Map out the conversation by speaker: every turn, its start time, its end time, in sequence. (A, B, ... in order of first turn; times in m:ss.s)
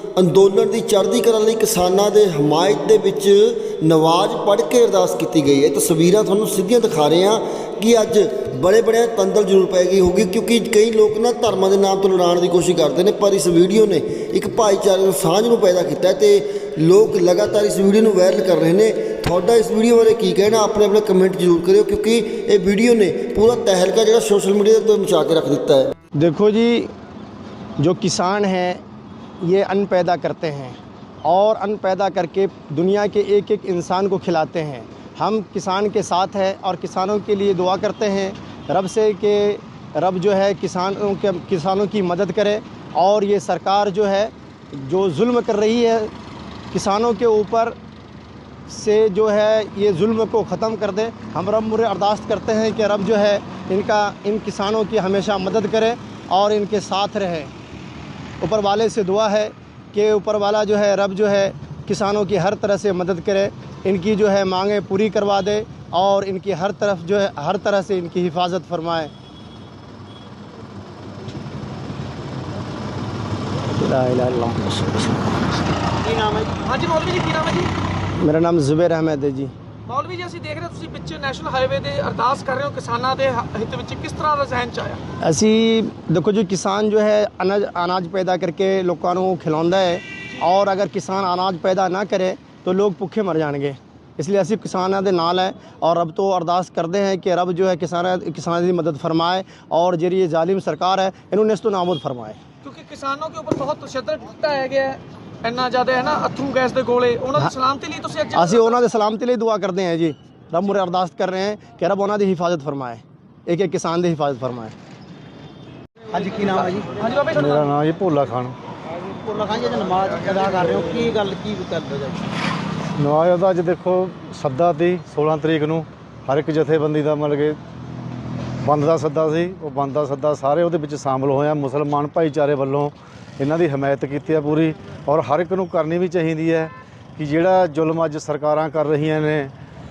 0:00.2-0:25.9 A
0:26.1-0:26.9 B
0:27.8-0:28.8 B
0:29.4-0:46.1 B
0:46.7-0:47.8 B
0:48.7-0:57.5 B
0:58.4-1:09.1 B
1:13.7-1:15.2 B
1:16.0-1:17.7 C
1:18.2-1:19.5 B
1:19.8-1:25.0 C
1:25.2-1:42.4 B
1:42.6-1:48.8 C
1:48.3-1:54.7 B
1:56.1-1:57.6 C
1:56.2-1:56.8 D
1:57.3-1:58.5 E
1:59.2-2:02.2 D
2:03.0-2:07.6 E
2:08.6-2:19.5 E